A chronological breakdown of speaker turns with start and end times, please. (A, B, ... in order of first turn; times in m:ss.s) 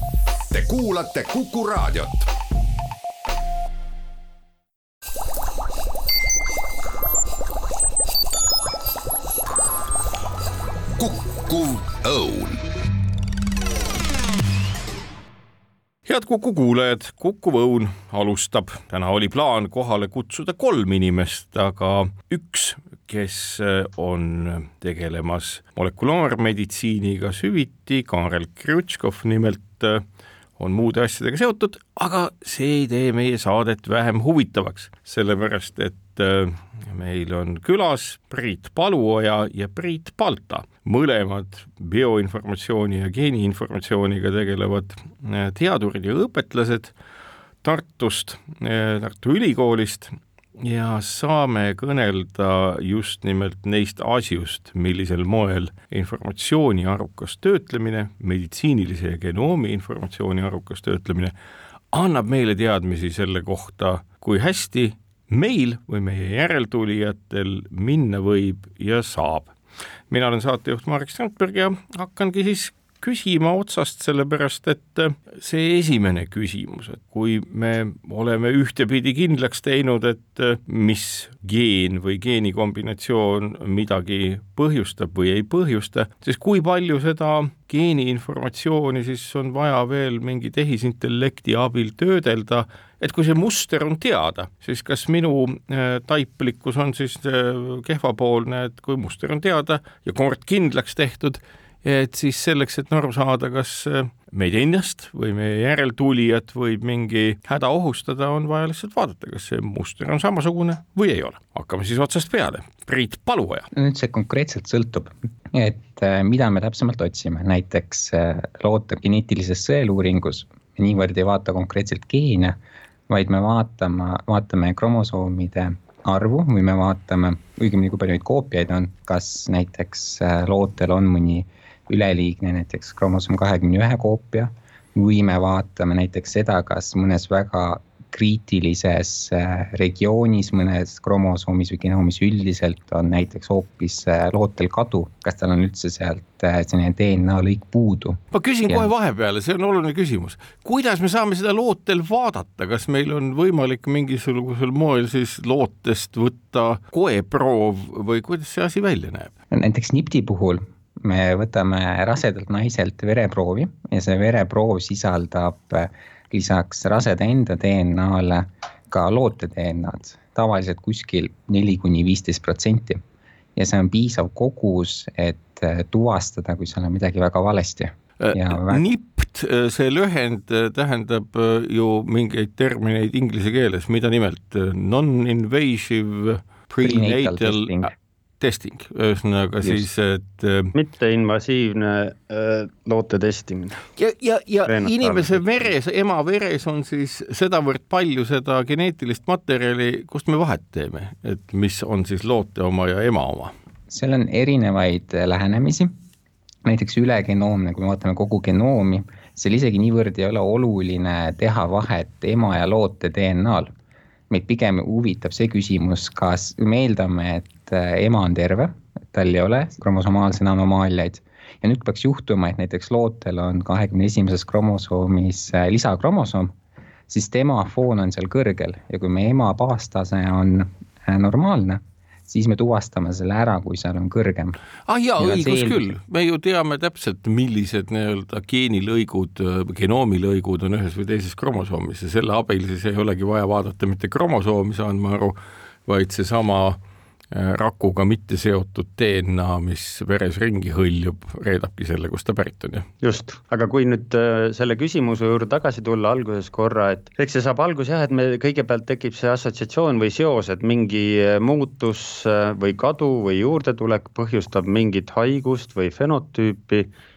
0:00.5-0:02.3 A
0:11.0-0:12.7 A
0:16.1-0:30.0 B
0:30.6-0:46.9 B
0:47.6-1:01.3 B
1:01.9-1:09.5 B
1:10.1-1:53.7 B
1:53.7-2:02.6 C
2:03.1-2:28.9 C
2:28.3-2:39.3 B
2:39.5-2:53.0 C
2:53.6-2:58.8 C
2:58.2-3:07.9 B
3:06.8-3:07.9 C
3:08.4-3:10.8 B
3:10.8-3:13.8 D
3:14.0-3:23.5 B
3:14.7-3:15.7 D
3:23.9-3:25.9 C
3:26.6-3:33.7 C
3:34.3-3:46.5 C
3:47.1-3:54.6 C
3:54.9-4:06.8 B
3:55.2-3:55.9 C
4:07.3-4:12.9 B
4:13.0-4:26.9 D